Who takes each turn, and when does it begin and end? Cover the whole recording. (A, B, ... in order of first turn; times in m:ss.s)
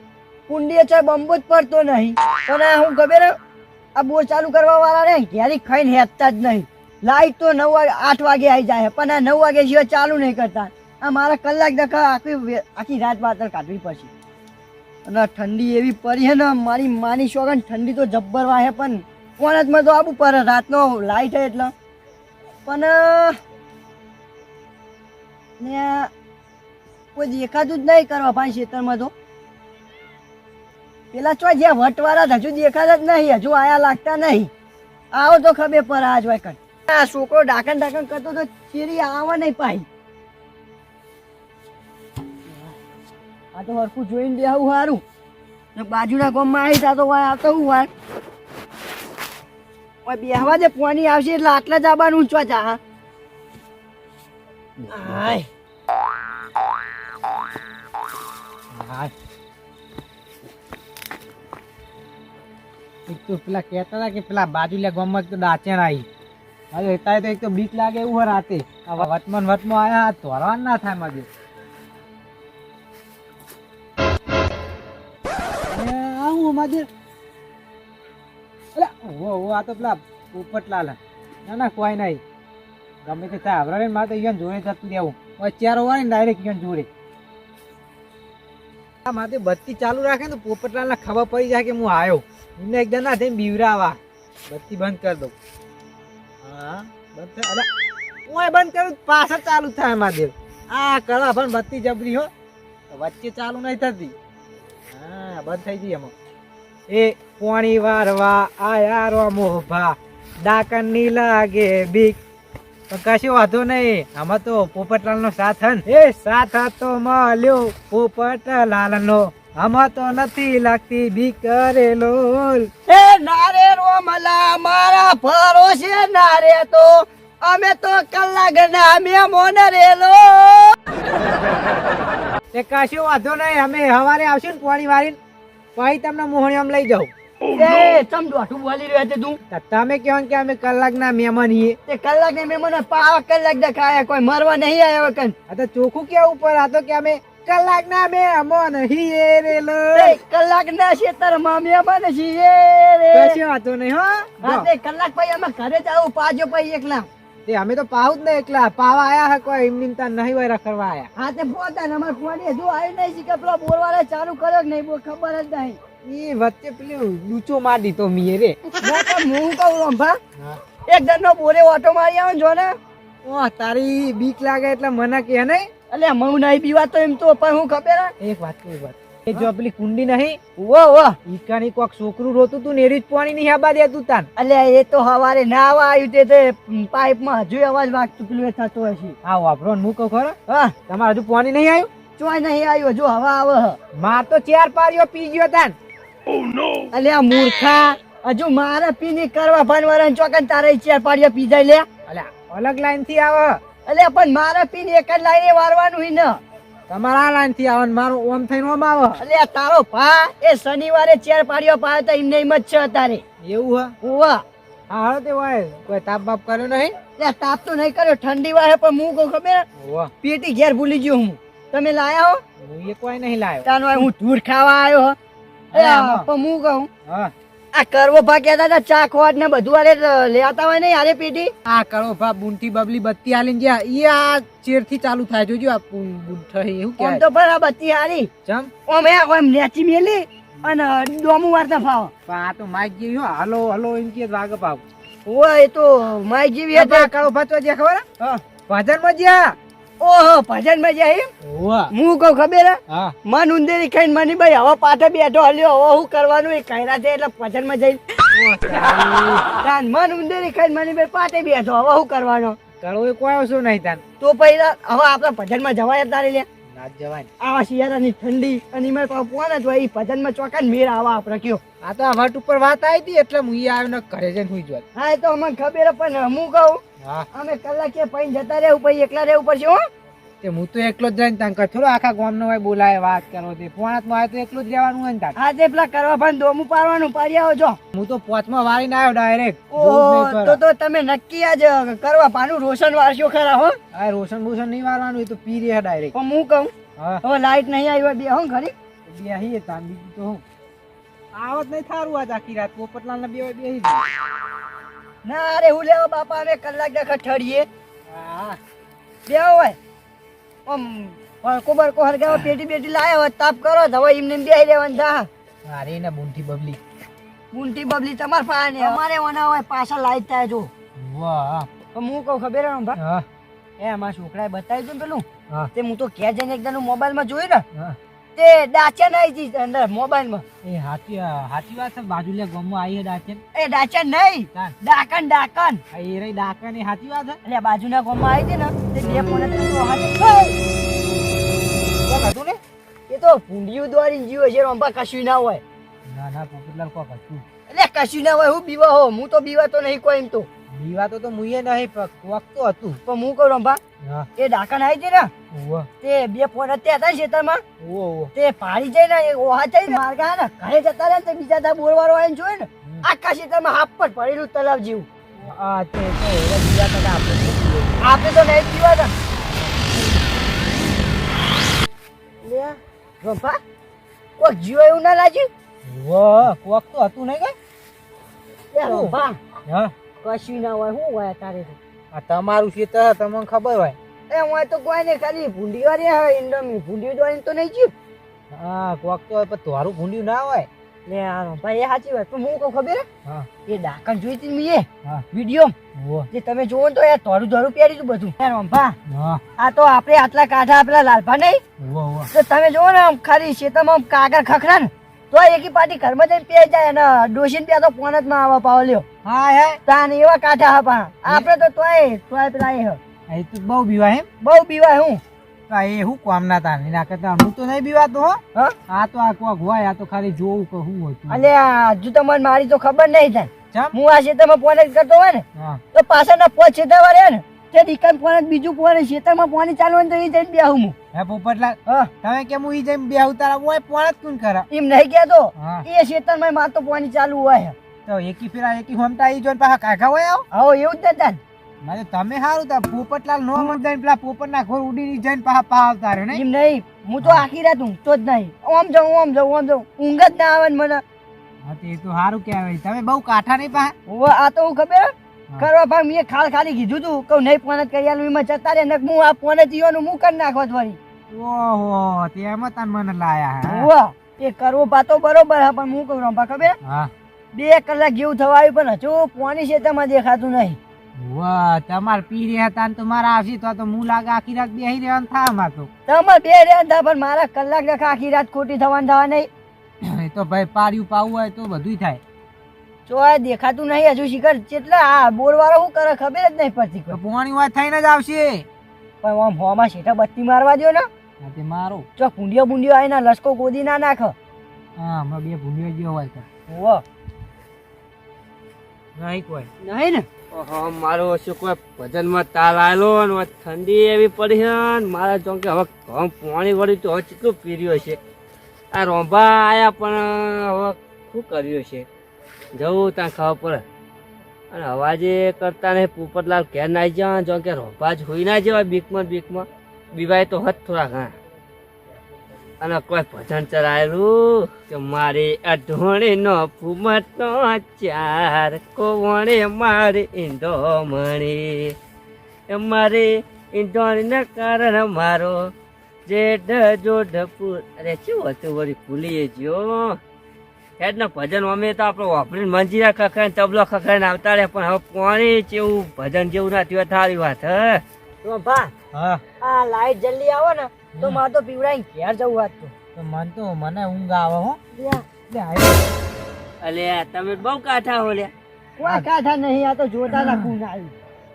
0:00.5-0:03.4 A
0:04.0-0:14.1 A
0:15.1-0:21.7 A
0:22.7-0:23.4 A
0:25.6-0:26.1 A
0:27.2-0:29.1 A
0:31.1-0:34.5 A
0:35.1-0:39.9 A
0:43.5-0:45.0 A
0:45.8-0:47.9 A
0:50.0-0:52.8 A
0:54.8-0:55.3 B
0:54.9-0:55.5 A
0:58.7-0:59.1 C
1:03.1-1:06.1 C
1:06.7-1:11.3 C
1:15.7-1:16.9 C
1:18.8-1:22.2 C
1:23.0-1:26.9 C
1:29.0-1:35.3 C
1:36.4-1:37.7 C
1:38.3-1:42.3 C
1:42.9-1:44.2 C
1:44.9-1:46.1 C
1:46.9-1:52.2 C
1:52.9-2:02.7 C
2:02.9-2:10.8 A
2:12.5-2:15.2 C
2:15.8-2:17.1 C
2:17.5-2:19.4 A
2:19.5-2:21.8 C
2:21.9-2:25.3 A
2:25.5-2:30.2 C
2:30.0-2:33.4 A
2:33.1-2:34.7 C
2:34.4-2:37.1 A
2:37.5-2:41.1 C
2:41.2-2:45.8 A
2:46.0-2:48.6 C
2:48.8-2:50.2 A
2:50.9-2:52.8 A
2:53.2-2:55.7 C
2:55.9-2:58.1 A
2:58.2-3:00.4 C
3:00.6-3:01.2 A
3:01.3-3:04.3 C
3:04.4-3:09.2 A
3:09.2-3:10.4 C
3:10.5-3:10.7 A
3:10.9-3:11.9 C
3:12.2-3:13.8 A
3:14.0-3:15.8 C
3:16.9-3:21.9 A
3:22.1-3:23.6 C
3:23.9-3:26.4 A
3:26.9-3:29.2 C
3:29.2-3:33.2 A
3:33.4-3:34.0 C
3:34.0-3:34.4 A
3:34.9-3:37.0 C
3:37.2-3:39.6 A
3:39.8-3:40.1 C
3:40.2-3:42.4 A
3:42.6-3:44.1 C
3:43.6-3:45.2 A
3:45.7-3:46.3 C
3:45.7-3:46.9 A
3:47.1-3:47.3 C
3:47.7-3:51.5 A
3:51.7-3:57.2 C
3:57.0-3:58.3 A
3:58.5-3:58.7 C
3:58.9-4:02.1 A
4:02.3-4:04.8 C
4:05.3-4:07.1 A
4:06.7-4:08.0 C
4:08.7-4:09.6 C
4:10.0-4:11.3 A
4:11.4-4:11.9 C
4:11.9-4:18.0 A
4:12.9-4:13.2 C
4:18.3-4:19.4 C
4:19.6-4:22.6 A
4:22.8-4:24.0 C
4:24.2-4:26.5 A
4:26.7-4:27.3 C
4:27.4-4:31.6 A
4:31.8-4:34.8 C
4:35.0-4:36.8 A
4:37.0-4:37.3 C
4:37.3-4:39.8 A
4:40.4-4:45.4 C
4:45.4-4:47.8 A
4:47.9-4:50.6 C
4:49.7-4:53.8 A
4:53.9-4:56.1 C
4:56.1-4:56.7 A
4:57.2-4:58.7 A
4:59.0-5:00.4 C
5:01.3-5:04.0 C
5:05.2-5:07.7 A
5:08.1-5:08.6 C
5:09.3-5:09.8 A
5:10.7-5:15.3 A
5:15.6-5:16.8 C
5:17.5-5:20.7 A
5:21.0-5:21.7 C
5:21.9-5:23.0 A
5:23.0-5:23.3 C
5:23.8-5:27.6 A
5:28.4-5:30.4 A
5:30.6-5:33.4 C
5:33.6-5:35.8 A
5:35.9-5:37.4 C
5:37.4-5:40.6 A
5:42.0-5:42.6 C
5:43.1-5:45.6 A
5:46.1-5:47.4 C
5:47.7-5:50.5 A
5:50.7-5:53.0 C
5:53.1-5:53.8 A
5:54.4-5:55.3 A
5:55.5-5:55.9 C
5:56.0-5:57.6 A
5:57.8-5:58.3 C
5:58.4-6:05.1 A
6:05.4-6:08.0 C
6:08.0-6:09.1 A
6:09.6-6:10.1 C
6:12.4-6:13.6 A
6:14.4-6:15.5 A
6:15.8-6:17.6 C
6:18.7-6:19.4 A
6:18.9-6:19.1 C
6:19.7-6:19.9 C
6:20.2-6:21.8 A
6:22.1-6:24.0 C
6:24.3-6:27.9 A
6:28.5-6:30.7 C
6:31.1-6:33.0 A
6:33.7-6:35.7 A
6:36.0-6:36.3 C
6:36.3-6:39.0 A
6:39.1-6:39.4 C
6:39.6-6:41.6 A
6:41.8-6:42.3 C
6:42.3-6:49.0 A
6:49.2-6:49.8 C
6:49.9-6:53.0 A
6:53.3-6:54.3 C
6:54.4-6:55.2 A
6:55.7-7:01.5 C
7:01.3-7:11.0 A
7:05.6-7:05.8 C
7:11.1-7:14.7 C
7:14.7-7:17.8 A
7:15.6-7:15.8 C
7:18.1-7:20.5 C
7:20.5-7:21.4 A
7:21.8-7:26.4 C
7:26.3-7:31.0 A
7:27.2-7:27.5 C
7:31.6-7:33.9 C
7:34.1-7:41.0 A
7:41.3-7:43.9 C
7:43.7-7:46.8 A
7:46.8-7:47.1 C
7:47.5-7:50.8 A
7:51.2-7:55.9 C
7:56.1-7:59.5 A
8:00.0-8:02.2 C
8:03.1-8:07.2 A
8:07.1-8:08.7 C
8:09.2-8:11.1 A
8:11.4-8:12.1 C
8:12.2-8:14.4 A
8:15.0-8:16.5 C
8:16.7-8:17.0 A
8:19.2-8:19.7 C
8:19.8-8:20.3 A
8:20.5-8:28.2 B
8:28.9-8:32.1 B
8:32.8-8:33.8 B
8:34.7-8:41.3 B
8:42.8-8:52.0 B
8:52.7-8:55.7 B
8:56.3-9:00.2 B
9:01.0-9:08.0 B
9:08.4-9:08.9 A
9:09.1-9:09.4 C
9:09.6-9:12.9 A
9:11.2-9:11.4 C
9:13.2-9:14.8 C
9:14.9-9:15.2 A
9:15.5-9:16.0 C
9:16.8-9:18.5 B
9:19.0-9:21.1 A
9:20.3-9:20.7 C